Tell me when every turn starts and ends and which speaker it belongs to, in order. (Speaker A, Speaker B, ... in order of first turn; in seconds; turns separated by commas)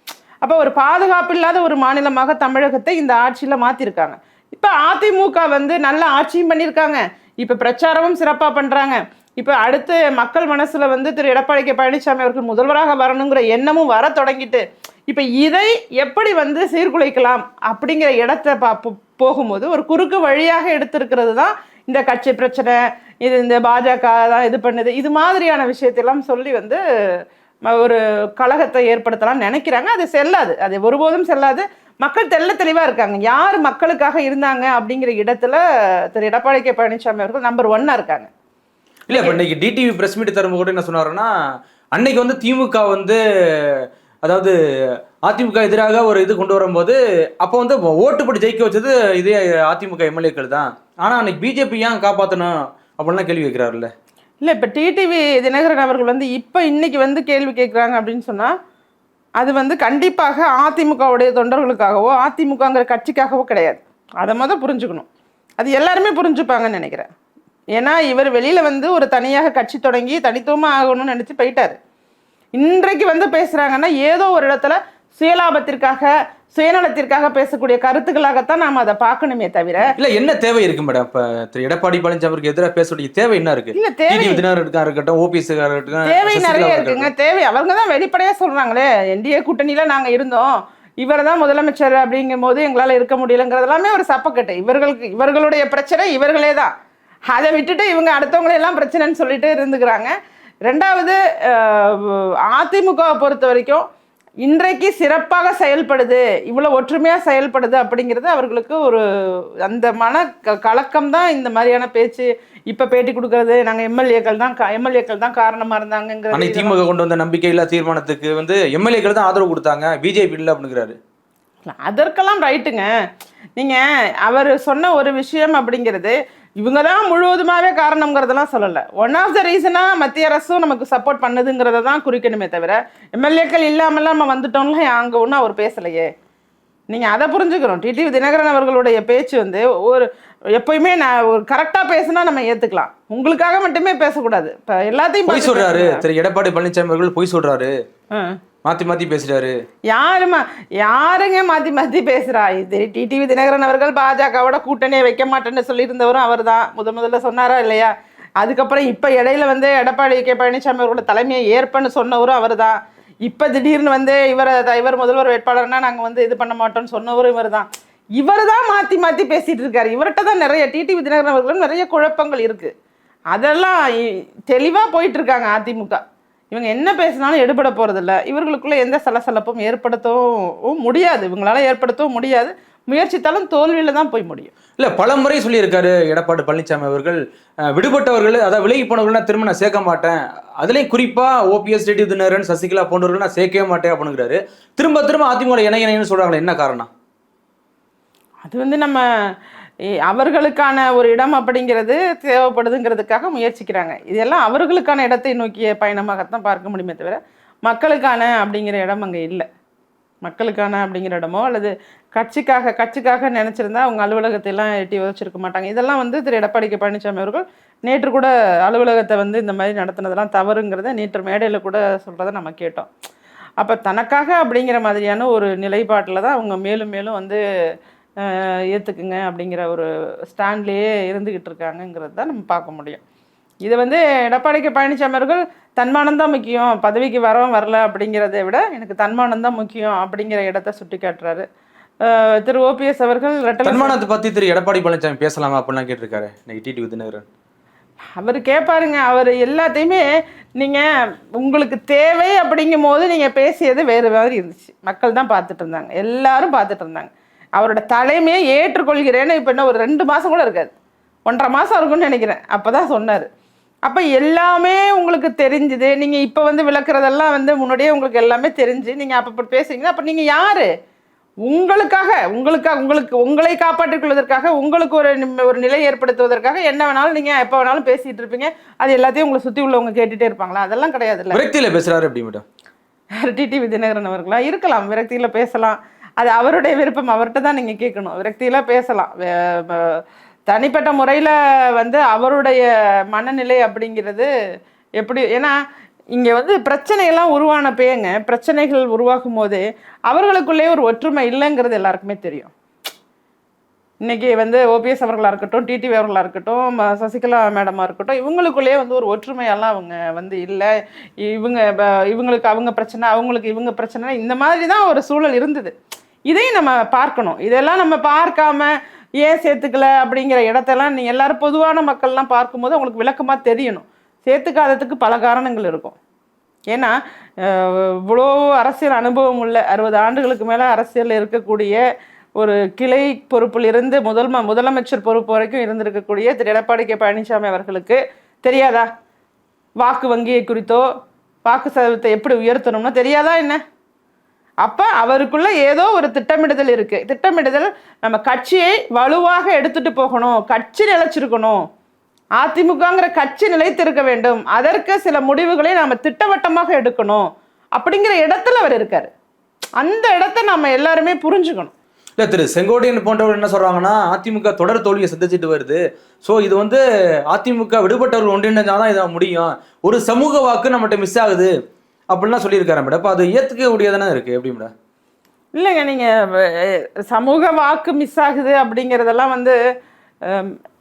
Speaker A: 0.4-26.8, Speaker A: 27.7-38.3, Speaker B: 39.1-41.3, Speaker A: 39.1-39.4, Speaker B: 42.0-44.5, Speaker B: 45.3-53.9, Speaker A: 54.4-58.5, Speaker A: 59.4-65.1, Speaker A: 65.6-67.1, Speaker A: 67.8-71.8, Speaker A: 72.6-79.9, Speaker B: 80.0-87.1, Speaker A: 83.7-84.4, Speaker A: 86.0-96.7, Speaker A: 97.3-100.1, Speaker A: 100.7-103.8, Speaker A: 104.4-109.0, Speaker A: 109.7-116.8, Speaker B: 116.3-121.0, Speaker A: 121.7-122.9, Speaker A: 123.6-136.1, Speaker A: 136.9-146.0, Speaker B: 145.3-147.7, Speaker B: 148.7-149.6, Speaker A: 149.9-167.7, Speaker A: 168.2-172.7, Speaker A: 173.3-184.5, Speaker B: 184.8-187.2, Speaker B: 187.7-196.9, Speaker A: 198.4-199.0, Speaker A: 200.1-209.5, Speaker A: 210.2-222.9, Speaker A: 223.6-227.4, Speaker A: 228.2-233.0, Speaker A: 233.7-241.5, Speaker A: 242.1-244.0, Speaker B: 243.6-247.2, Speaker A: 248.2-250.0, Speaker A: 250.6-250.9, Speaker A: 251.4-260.7, Speaker A: 261.3-263.3, Speaker A: 263.9-270.7, Speaker A: 271.5-281.4, Speaker B: 281.3-282.4, Speaker A: 283.2-294.3, Speaker A: 295.0-295.5, Speaker A: 296.1-302.5, Speaker A: 304.0-310.7, Speaker A: 311.2-315.7, Speaker A: 316.3-326.0, Speaker A: 326.7-331.8, Speaker A: 332.4-338.9, Speaker A: 339.8-340.9, Speaker A: 341.5-343.6, Speaker A: 344.6-351.6, Speaker A: 352.4-359.1, Speaker A: 359.8-361.7, Speaker B: 362.2-371.5, Speaker B: 372.1-374.7, Speaker A: 375.6-379.6, Speaker A: 380.3-380.6